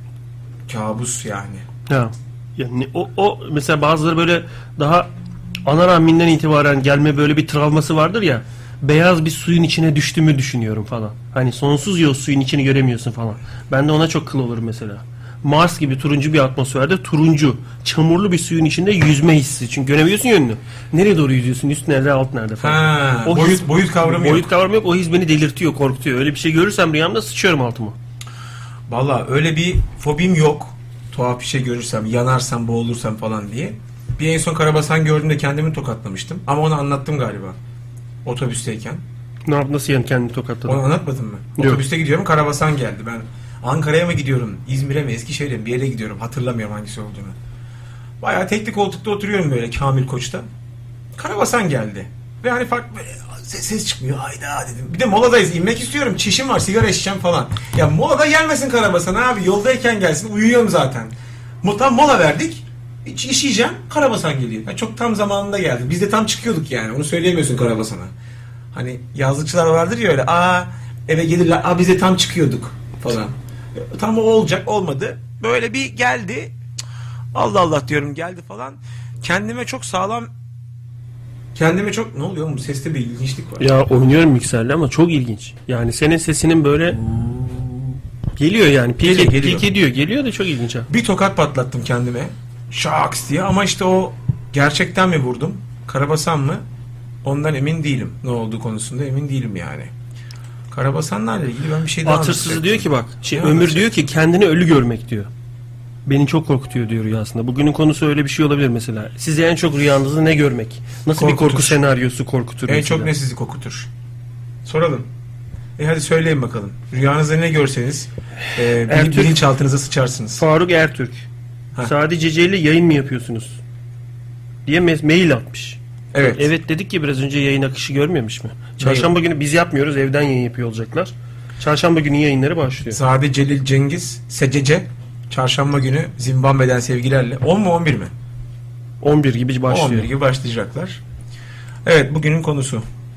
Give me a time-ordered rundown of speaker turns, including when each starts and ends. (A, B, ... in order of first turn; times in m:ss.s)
0:00.7-0:01.6 A
0:01.9-0:05.1 B
0:05.7-0:28.0 B
0:22.6-0:24.5 A
0:28.9-0:37.6 A
0:38.2-0:39.0 A
0:39.5-0:40.9 B
0:40.7-0:47.4 A
0:41.6-0:41.8 B
0:48.2-0:50.5 A
0:51.2-1:08.1 A
1:08.7-1:16.6 A
1:17.3-1:20.3 A
1:21.6-1:23.7 A
1:23.6-1:30.9 B
1:29.0-1:29.7 A
1:30.9-1:36.6 A
1:37.2-1:39.9 A
1:40.7-1:44.1 A
1:42.0-1:45.3 B
1:46.1-1:53.1 B
1:51.1-1:51.8 A
1:52.7-1:53.9 A
1:54.6-1:55.1 A
1:55.8-2:00.4 A
1:58.5-1:59.4 B
2:00.4-2:01.3 B
2:01.8-2:03.6 B
2:04.7-2:13.0 B
2:06.1-2:06.5 A
2:08.8-2:09.1 A
2:12.9-2:18.1 A
2:19.0-2:20.1 B
2:19.7-2:21.0 A
2:21.8-2:22.8 A